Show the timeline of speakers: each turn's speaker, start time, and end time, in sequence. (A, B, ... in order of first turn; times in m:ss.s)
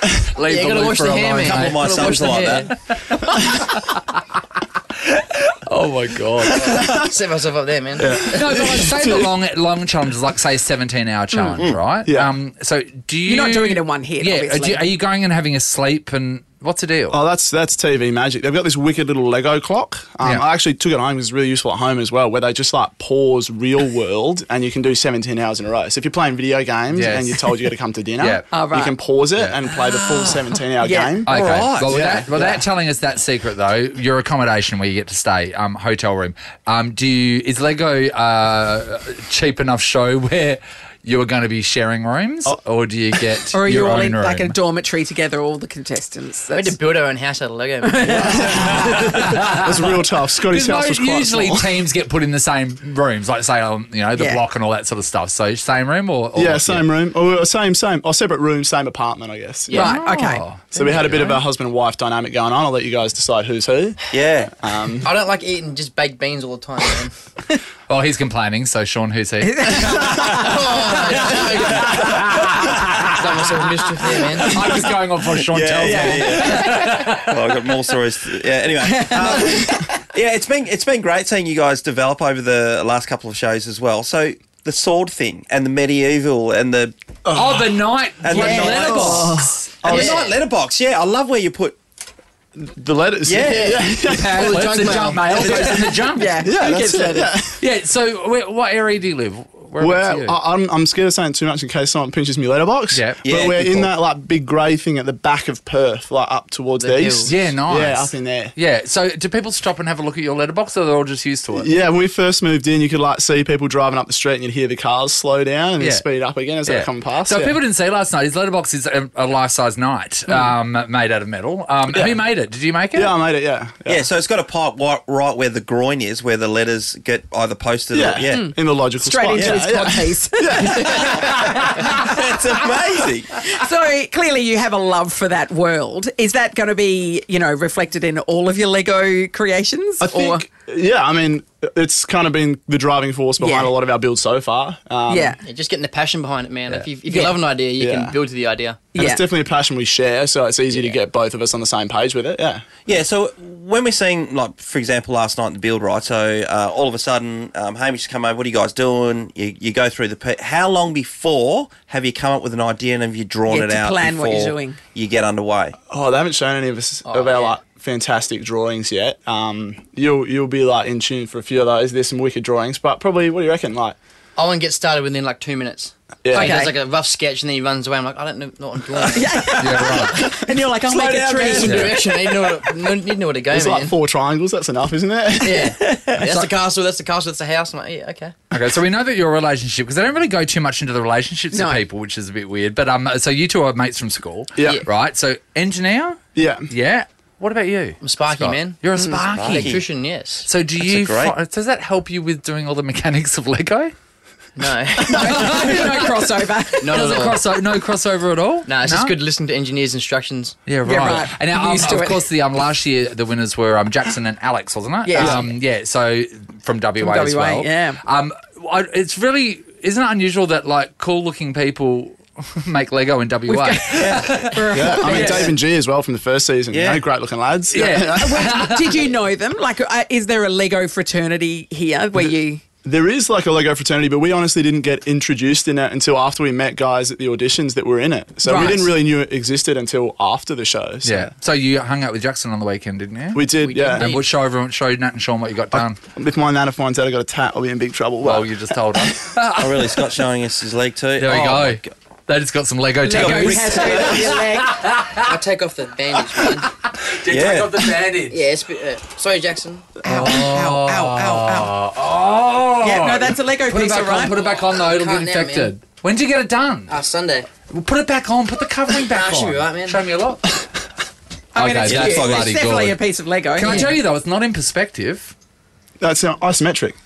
0:00.3-0:06.9 A
0:00.5-0:02.7 B
0:01.4-0:02.7 C
0:06.5-0:08.2 B
0:06.6-0:07.0 D
0:08.0-0:09.3 D
0:08.2-0:17.2 A
0:12.0-0:12.3 D
0:13.2-0:14.9 E
0:17.1-0:32.6 D
0:26.9-0:27.6 A
0:28.2-0:28.5 A
0:28.5-0:29.0 E
0:30.8-0:31.3 E
0:31.2-0:44.6 A
0:31.3-0:32.0 C
0:43.5-0:46.8 E
0:46.5-0:48.5 B
0:47.8-0:49.1 E
0:48.0-0:51.7 D
0:48.8-0:49.7 A
0:50.5-0:56.8 A
0:54.2-0:54.4 E
0:56.3-0:59.8 D
0:59.7-1:00.0 B
0:59.7-1:00.4 E
0:59.8-1:01.4 A
1:00.7-1:05.1 D
1:04.1-1:04.5 C
1:05.0-1:07.1 B
1:07.9-1:10.4 A
1:09.4-1:10.9 E
1:10.3-1:12.3 B
1:12.0-1:13.2 A
1:13.0-1:14.6 B
1:14.4-1:17.4 A
1:15.4-1:26.9 C
1:15.8-1:16.5 E
1:18.8-1:19.7 E
1:27.2-1:27.7 D
1:27.3-1:29.8 A
1:28.2-1:31.8 C
1:28.3-1:29.5 E
1:28.7-1:30.2 D
1:29.9-1:30.3 B
1:32.6-1:34.6 D
1:33.2-1:34.1 C
1:33.4-1:36.0 B
1:34.1-1:36.4 A
1:35.4-1:35.7 D
1:36.1-1:37.3 E
1:36.4-1:37.6 D
1:37.6-1:40.4 A
1:39.8-1:48.5 D
1:42.9-1:43.2 A
1:43.2-1:43.9 C
1:46.8-1:47.4 B
1:47.2-1:51.7 A
1:51.5-1:57.6 D
1:56.6-2:03.1 A
2:00.3-2:00.5 D
2:01.9-2:02.2 D
2:02.9-2:04.0 D
2:03.9-2:08.5 C
2:07.9-2:11.2 D
2:08.3-2:11.9 E
2:09.3-2:09.6 C
2:10.9-2:13.3 C
2:13.3-2:20.4 E
2:20.0-2:25.4 D
2:23.4-2:23.7 E
2:25.1-2:25.4 E
2:25.4-2:28.8 B
2:27.0-2:27.4 E
2:27.8-2:28.2 D
2:28.9-2:32.6 D
2:28.9-2:29.2 E
2:32.8-2:45.8 C
2:43.5-2:44.8 E
2:45.9-2:54.0 D
2:47.0-2:47.6 B
2:54.4-2:59.4 B
2:56.2-2:56.6 D
2:56.3-2:56.7 E
2:59.1-3:02.0 E
2:59.6-3:00.3 A
3:00.8-3:01.8 C
3:01.4-3:04.0 B
3:01.6-3:02.0 A
3:02.0-3:02.6 D
3:03.5-3:05.8 D
3:05.4-3:08.4 B
3:08.5-3:19.8 A
3:11.5-3:11.8 E
3:14.6-3:14.8 D
3:16.3-3:16.7 D
3:18.0-3:19.0 B
3:19.3-3:19.8 C
3:19.5-3:20.5 B
3:20.4-3:23.9 A
3:20.8-3:21.4 C
3:24.6-3:25.9 B
3:25.0-3:27.0 E
3:25.2-3:26.1 A
3:26.8-3:27.4 B
3:26.8-3:29.1 A
3:28.6-3:30.7 B
3:30.6-3:45.4 A
3:30.8-3:32.3 E
3:35.0-3:35.5 E
3:37.0-3:38.0 E
3:43.5-3:45.5 E
3:43.9-3:44.3 C
3:44.7-3:48.6 D
3:46.7-3:47.0 C
3:47.7-3:49.0 A
3:48.1-3:52.6 E
3:52.8-4:01.3 D
3:58.4-3:58.9 E
4:01.0-4:06.0 A
4:03.3-4:04.1 D
4:03.5-4:04.3 B
4:05.7-4:08.6 D
4:08.2-4:10.1 A
4:09.6-4:11.9 C
4:11.2-4:15.3 A
4:13.0-4:14.7 E
4:13.1-4:14.1 C
4:15.2-4:16.7 B
4:16.3-4:18.4 A
4:17.3-4:17.8 C
4:18.3-4:20.0 B
4:20.0-4:21.8 E
4:20.0-4:26.9 A
4:22.8-4:24.4 E
4:24.3-4:25.8 B
4:26.9-4:27.5 B
4:27.6-4:30.6 A
4:28.9-4:30.0 B
4:31.5-4:33.9 E
4:31.5-4:33.0 A
4:31.8-4:32.5 C
4:33.5-4:35.3 A
4:33.6-4:33.9 B
4:36.0-4:37.0 D